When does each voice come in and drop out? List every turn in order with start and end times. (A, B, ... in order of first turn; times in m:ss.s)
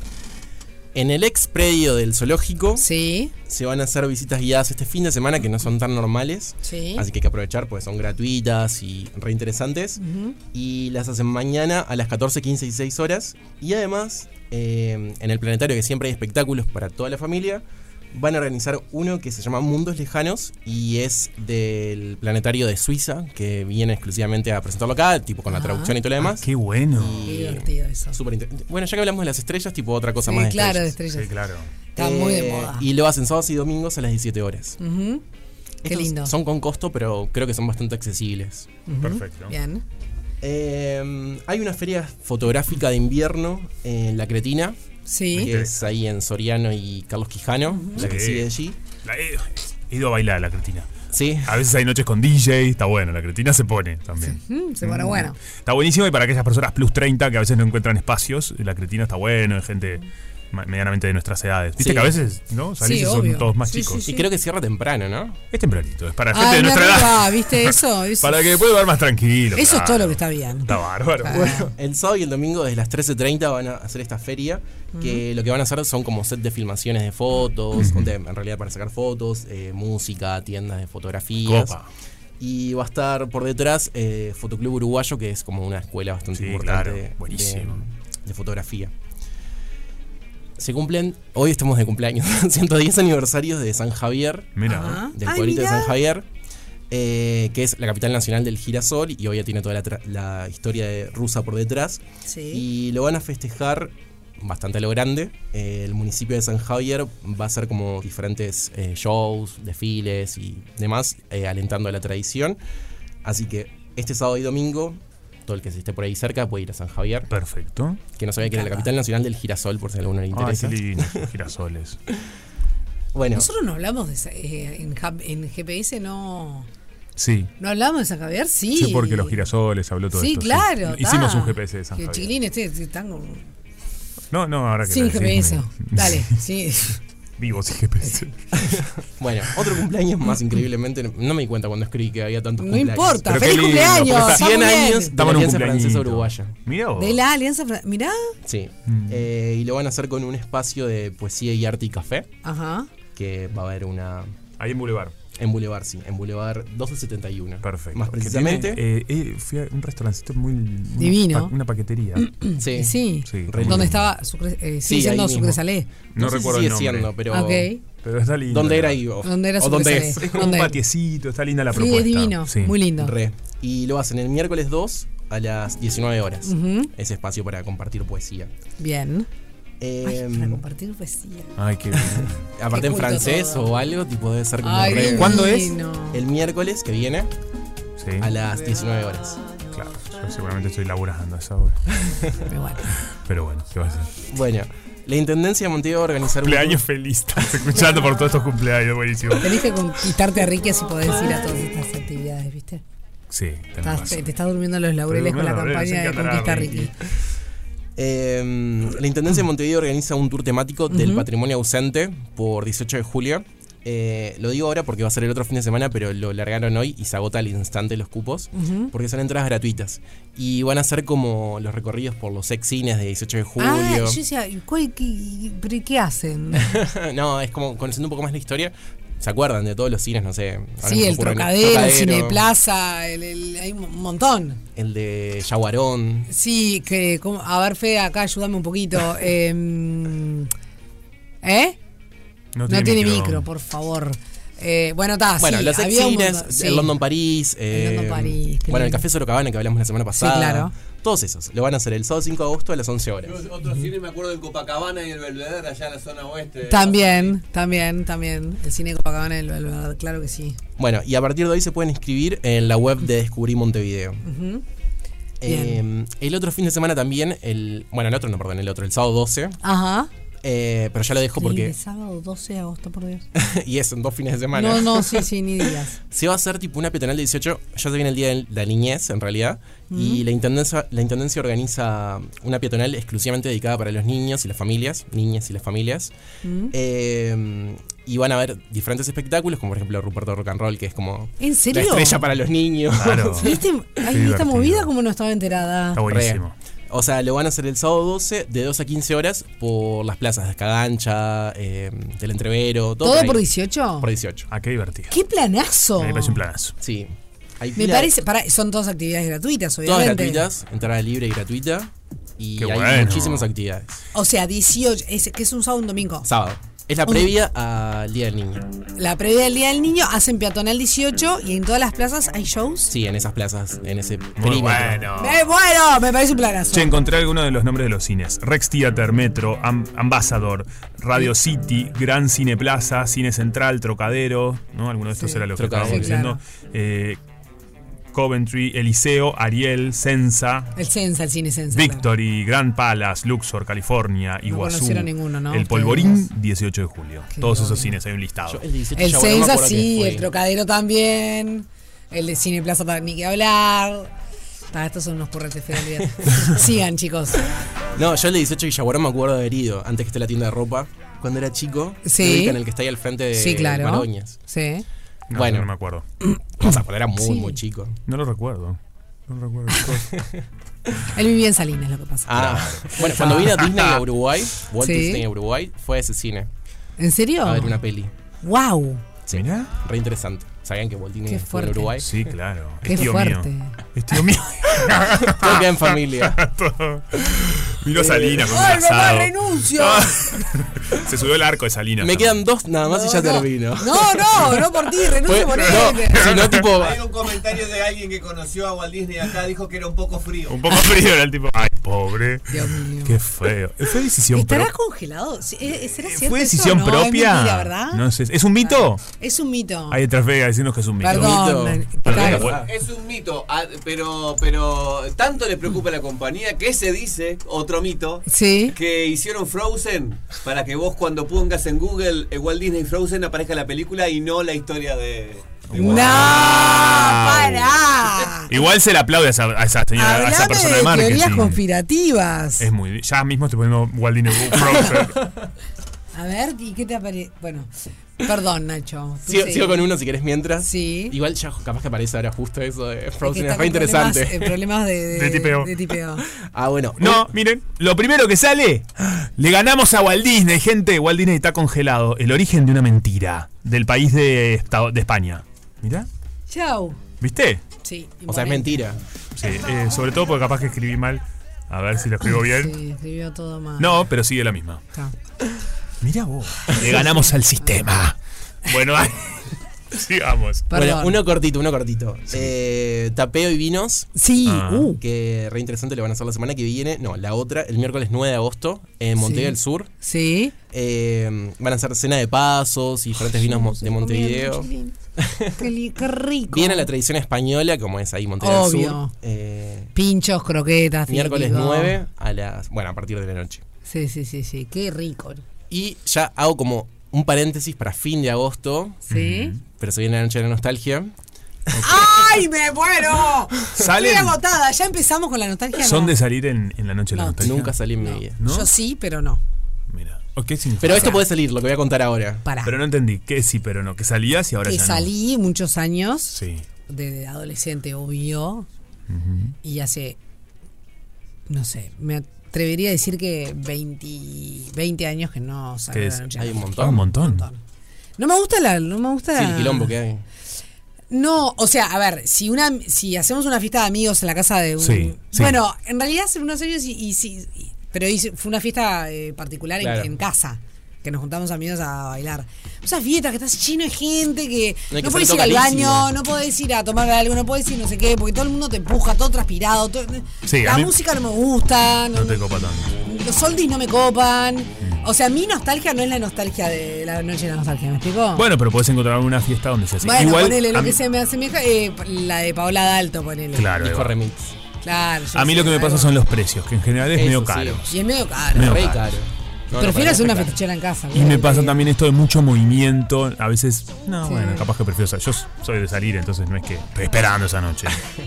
0:01.0-0:02.9 A
0:02.8-0:03.3 B
0:03.5-0:10.0 A
0:06.6-0:07.1 B
0:10.0-0:10.4 B
0:10.5-0:31.0 A
0:25.5-0:26.0 B
0:26.2-0:27.2 C
0:27.2-0:28.2 B
0:30.2-0:31.4 B
0:31.1-0:31.7 C
0:32.0-0:32.9 B
0:32.0-0:34.8 A
0:34.8-0:35.2 B
0:35.8-0:38.7 A
0:35.9-0:36.4 B
0:38.9-0:39.8 B
0:39.0-0:39.6 C
0:40.4-0:44.8 A
0:45.1-0:45.5 B
0:45.3-0:45.8 C
0:45.4-0:48.8 A
0:47.7-0:48.1 B
0:48.0-0:48.5 C
0:49.0-0:50.9 C
0:51.1-0:51.6 A
0:51.4-1:04.1 C
0:54.2-0:55.4 B
1:01.8-1:02.2 A
1:02.8-1:04.3 B
1:04.0-1:05.4 A
1:05.5-1:11.6 C
1:06.3-1:08.6 B
1:09.5-1:11.7 B
1:11.3-1:21.8 A
1:14.9-1:15.2 B
1:17.8-1:18.1 C
1:21.4-1:21.9 C
1:22.4-1:28.9 A
1:26.3-1:27.8 C
1:30.6-1:34.6 A
1:34.6-1:35.1 C
1:34.6-1:36.0 B
1:35.1-1:36.3 A
1:36.9-1:52.6 A
1:42.3-1:42.6 B
1:53.2-1:57.3 A
1:57.3-1:58.0 C
1:58.2-2:01.3 A
1:58.4-1:58.9 B
2:00.3-2:02.0 C
2:03.1-2:03.5 A
2:03.3-2:06.7 B
2:07.2-2:07.5 C
2:07.6-2:09.4 B
2:08.8-2:12.3 C
2:10.1-2:13.5 B
2:14.3-2:16.4 C
2:14.9-2:17.0 B
2:17.4-2:18.9 C
2:18.6-2:26.6 A
2:22.6-2:25.2 B
2:23.3-2:24.5 C
2:25.1-2:27.2 C
2:27.0-2:28.4 B
2:28.4-2:32.3 A
2:28.9-2:29.3 C
2:32.4-2:32.9 B
2:33.2-2:34.3 A
2:34.6-2:35.2 C
2:35.4-2:38.8 A
2:37.6-2:42.4 C
2:41.0-2:41.5 B
2:42.3-2:45.9 B
2:42.6-2:44.0 A
2:43.3-2:44.1 C
2:44.8-2:45.6 A
2:46.2-2:47.1 C
2:46.2-2:47.7 A
2:47.3-2:47.8 B
2:48.0-2:49.0 C
2:48.5-2:50.5 A
2:49.2-2:50.8 B
2:50.2-2:52.8 C
2:51.7-2:53.2 B
2:53.0-2:58.5 A
2:56.4-2:56.9 B
2:58.8-2:59.3 B
2:59.8-3:00.6 A
3:00.0-3:01.6 B
3:01.6-3:02.5 C
3:02.6-3:05.4 A
3:02.7-3:03.8 B
3:04.6-3:06.3 B
3:04.8-3:05.8 C
3:06.1-3:07.3 A
3:08.0-3:08.3 C
3:08.2-3:09.4 A
3:09.7-3:12.2 C
3:12.4-3:12.9 B
3:13.1-3:14.1 C
3:14.3-3:16.8 A
3:16.4-3:20.1 C
3:19.4-3:22.8 B
3:23.3-3:24.3 C
3:23.8-3:26.9 B
3:25.1-3:26.9 C
3:28.0-3:44.2 A
3:30.9-3:31.3 B
3:38.6-3:38.9 B
3:43.6-3:46.7 B
3:46.5-3:52.4 A
3:50.8-3:54.6 B
3:54.8-3:56.3 A
3:56.3-4:00.5 B
4:01.4-4:01.8 B
4:02.6-4:03.4 C
4:02.7-4:07.0 B
4:05.4-4:13.4 A
4:07.7-4:09.0 B
4:10.1-4:10.7 B
4:13.3-4:17.3 D
4:16.6-4:20.6 B
4:20.8-4:24.2 A
4:24.2-4:24.6 B
4:25.4-4:29.6 A
4:25.5-4:25.8 B
4:29.6-4:30.1 B
4:30.4-4:31.8 A
4:31.4-4:33.3 B
4:33.3-4:46.1 A
4:34.5-4:36.0 B
4:39.9-4:40.2 B
4:46.4-4:46.7 B
4:46.7-4:53.6 A
4:51.4-4:52.2 B
4:53.0-4:54.9 C
4:53.4-4:56.0 B
4:55.9-4:56.5 C
4:56.1-5:03.5 A
5:03.0-5:04.1 B
5:04.0-5:04.5 A
5:04.5-5:05.1 C
5:05.1-5:06.4 B
5:06.0-5:06.8 C
5:06.8-5:08.2 A
5:07.8-5:10.5 B
5:09.8-5:14.0 A
5:12.6-5:13.5 C
5:14.1-5:16.3 B
5:16.2-5:18.7 A
5:17.1-5:17.3 B
5:19.0-5:22.9 B
5:22.9-5:25.1 A
5:24.4-5:25.4 C
5:25.2-5:26.9 B
5:26.7-5:37.2 C
5:35.2-5:36.4 B
5:35.6-5:36.2 A
5:38.1-5:40.7 C
5:40.8-5:42.1 B
5:41.7-5:48.6 C
5:44.4-5:46.3 B
5:47.3-5:48.0 B
5:48.5-5:50.3 A
5:49.0-5:54.1 B
5:54.7-5:57.5 B
5:58.0-6:04.4 A
6:02.0-6:02.6 B
6:03.3-6:04.8 B
6:05.3-6:06.0 C
6:05.3-6:05.7 A
6:06.6-6:08.0 A
6:07.2-6:07.6 B
6:08.1-6:10.2 C
6:10.1-6:10.9 A
6:11.0-6:13.6 B
6:12.3-6:16.5 A
6:12.3-6:14.0 C
6:14.8-6:15.3 B
6:17.0-6:17.8 B
6:17.4-6:18.1 A
6:18.4-6:19.0 B
6:19.3-6:22.2 A
6:19.3-6:19.7 C
6:21.3-6:22.0 B
6:22.0-6:32.4 C
6:22.8-6:23.8 B
6:25.2-6:26.4 A
6:27.9-6:28.6 A
6:28.4-6:30.2 B
6:32.0-6:34.6 A
6:32.8-6:36.4 B
6:35.3-6:37.0 A
6:35.5-6:36.7 C
6:36.8-6:40.6 D
6:40.5-6:44.7 C
6:42.5-6:43.2 B
6:44.3-6:48.1 B
6:45.9-6:49.0 C
6:48.6-6:50.0 B
6:49.9-6:51.5 C
6:51.0-6:52.5 B
6:51.0-6:52.7 A
6:52.0-6:52.7 C
6:52.2-7:05.6 D
6:58.3-6:58.8 B
7:05.7-7:07.8 C
7:05.7-7:08.5 B
7:08.5-7:11.6 C
7:10.0-7:12.7 B
7:12.6-7:15.2 C
7:14.6-7:15.0 B
7:16.1-7:19.9 B
7:19.3-7:24.6 A
7:20.6-7:21.2 B
7:23.2-7:26.3 B
7:25.1-7:25.7 C
7:26.4-7:27.3 A
7:27.0-7:36.1 C
7:36.5-7:37.0 B
7:37.2-7:37.6 C
7:37.8-7:38.8 B
7:38.3-7:39.0 A
7:39.4-7:42.7 C
7:42.4-7:44.0 B
7:43.8-7:44.8 C
7:46.0-7:50.7 C
7:46.7-7:47.8 B
7:50.7-7:51.2 B
7:50.7-7:54.1 A
7:54.2-7:55.0 B
7:54.4-7:55.0 C
7:55.0-7:59.9 A
7:59.2-8:00.5 B
8:00.7-8:05.6 A
8:03.2-8:05.0 B
8:05.6-8:06.9 B
8:06.5-8:09.9 A
8:08.4-8:09.1 B
8:10.0-8:12.0 B
8:11.1-8:13.6 A
8:13.9-8:15.4 B
8:15.7-8:19.1 A
8:19.1-8:19.6 B
8:19.1-8:19.6 C
8:19.8-8:21.1 A
8:21.7-8:22.4 A
8:21.8-8:26.2 B
8:23.7-8:24.4 C
8:25.8-8:27.8 C
8:27.1-8:29.4 B
8:27.4-8:28.4 A
8:28.4-8:28.7 C
8:29.9-8:31.2 C
8:30.8-8:32.4 A
8:30.9-8:31.2 B
8:32.4-8:32.8 B
8:32.6-8:35.1 C
8:34.6-8:36.4 B
8:36.3-8:36.6 C
8:36.9-8:38.7 B
8:39.1-8:39.6 C
8:39.6-8:40.2 B
8:41.5-8:47.6 B
8:45.9-8:47.4 C
8:46.4-8:47.0 A
8:48.2-8:50.0 B
8:49.3-8:50.2 A
8:51.1-9:12.4 B
8:54.8-8:55.6 C
8:59.8-9:00.1 A
9:04.9-9:06.1 A
9:10.5-9:10.9 C
9:12.1-9:12.9 C
9:13.0-9:18.5 B
9:18.4-9:21.0 C
9:20.0-9:23.7 B
9:23.6-9:24.2 C
9:23.8-9:24.6 A
9:24.8-9:26.2 B
9:25.3-9:27.9 C
9:27.1-9:27.9 A
9:27.9-9:28.9 B
9:28.5-9:29.0 C
9:28.6-9:30.6 A
9:29.7-9:31.8 B
9:31.1-9:38.0 C
9:34.2-9:34.7 B